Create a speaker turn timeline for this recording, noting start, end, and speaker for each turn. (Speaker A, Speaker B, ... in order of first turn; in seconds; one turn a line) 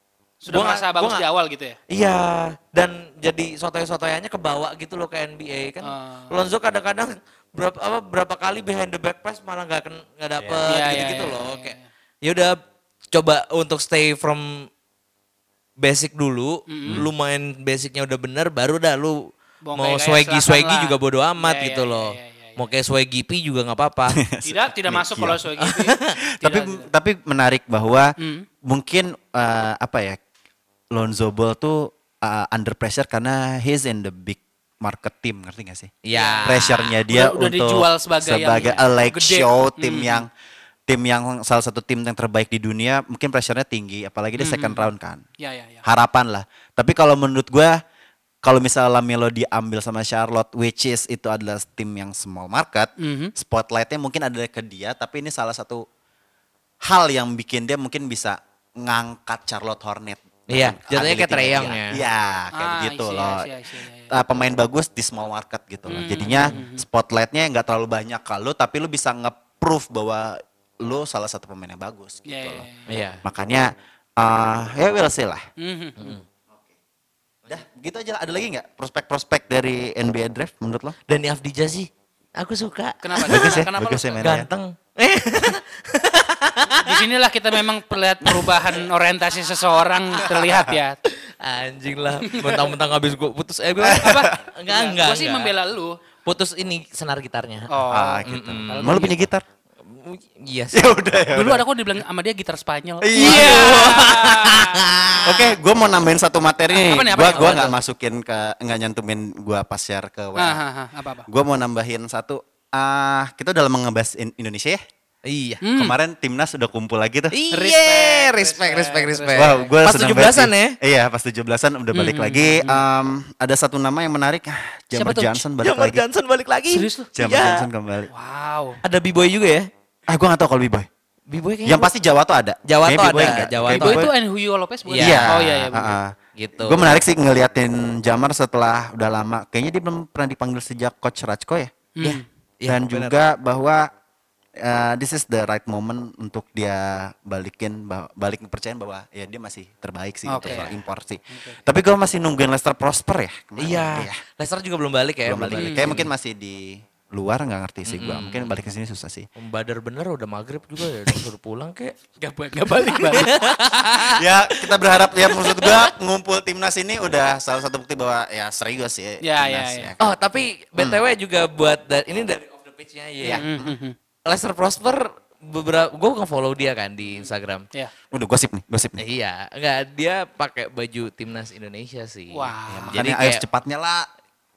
Speaker A: 0.4-1.8
Speaker B: 0.5-1.2
Speaker B: 1.9-12.6
Speaker A: 5.8-6.3
Speaker C: 10.4-11.0
Speaker A: 10.7-11.9
Speaker B: 13.1-14.7
Speaker B: 15.8-19.2
Speaker A: 16.7-17.0
Speaker A: 19.6-22.7
Speaker B: 19.8-24.2
Speaker C: 24.1-25.4
Speaker A: 24.4-26.9
Speaker B: 25.6-26.1
Speaker C: 26.4-28.1
Speaker A: 28.2-28.4
Speaker C: 28.6-30.2
Speaker C: 30.9-35.9
Speaker B: 36.0-37.0
Speaker A: 36.1-40.2
Speaker C: 36.5-40.3
Speaker C: 40.9-45.2
Speaker A: 44.4-44.9
Speaker A: 45.4-45.8
Speaker C: 45.8-47.8
Speaker C: 48.4-55.8
Speaker A: 53.0-53.3
Speaker C: 56.8-63.5
Speaker B: 60.5-62.0
Speaker A: 62.5-64.1
Speaker C: 64.1-72.7
Speaker A: 65.9-66.8
Speaker B: 66.2-66.5
Speaker A: 72.2-72.8
Speaker B: 72.9-73.2
Speaker C: 73.2-75.4
Speaker A: 75.6-76.2
Speaker C: 77.5-81.0
Speaker B: 81.1-83.6
Speaker A: 83.0-84.2
Speaker C: 83.2-84.5
Speaker B: 84.2-87.0
Speaker A: 86.8-91.0
Speaker B: 88.2-88.7
Speaker B: 91.0-95.5
Speaker A: 92.3-92.7
Speaker C: 93.8-94.3
Speaker A: 94.0-96.0
Speaker B: 96.2-97.7
Speaker A: 97.7-99.1
Speaker C: 97.9-99.4
Speaker B: 98.2-99.0
Speaker B: 99.8-100.9
Speaker C: 100.7-101.7
Speaker A: 101.3-104.9
Speaker C: 103.0-104.5
Speaker B: 103.2-105.5
Speaker C: 105.2-110.6
Speaker A: 106.7-107.8
Speaker B: 107.3-107.7
Speaker A: 110.4-111.3
Speaker C: 111.3-114.8
Speaker B: 115.2-115.6
Speaker A: 115.6-116.0
Speaker C: 115.7-117.3
Speaker B: 117.3-120.8
Speaker A: 117.5-119.7
Speaker C: 119.3-126.0
Speaker A: 121.9-122.8
Speaker A: 124.9-125.4
Speaker B: 125.6-127.7
Speaker A: 126.7-127.1
Speaker C: 127.1-128.1
Speaker A: 128.1-128.8
Speaker B: 128.8-129.7
Speaker C: 130.1-130.9
Speaker B: 131.3-131.9
Speaker C: 131.6-134.1
Speaker B: 132.7-134.1
Speaker A: 133.7-135.9
Speaker B: 134.8-135.3
Speaker C: 135.0-141.7
Speaker B: 136.4-136.9
Speaker A: 142.0-142.2
Speaker B: 142.0-143.1
Speaker C: 142.7-143.9
Speaker C: 144.6-154.2
Speaker A: 150.3-150.7
Speaker B: 150.4-150.7
Speaker A: 151.3-151.6
Speaker B: 153.6-156.1
Speaker C: 155.2-159.3
Speaker A: 155.5-156.0
Speaker B: 157.8-158.5
Speaker B: 159.3-161.9
Speaker A: 162.2-163.9
Speaker B: 162.8-164.2
Speaker C: 164.1-170.0
Speaker B: 165.2-165.9
Speaker A: 169.2-169.9
Speaker B: 170.0-173.4
Speaker C: 173.2-173.8
Speaker A: 173.3-173.9
Speaker B: 174.3-177.7
Speaker C: 178.1-179.0
Speaker B: 179.0-183.4
Speaker A: 182.3-183.0
Speaker C: 182.7-184.1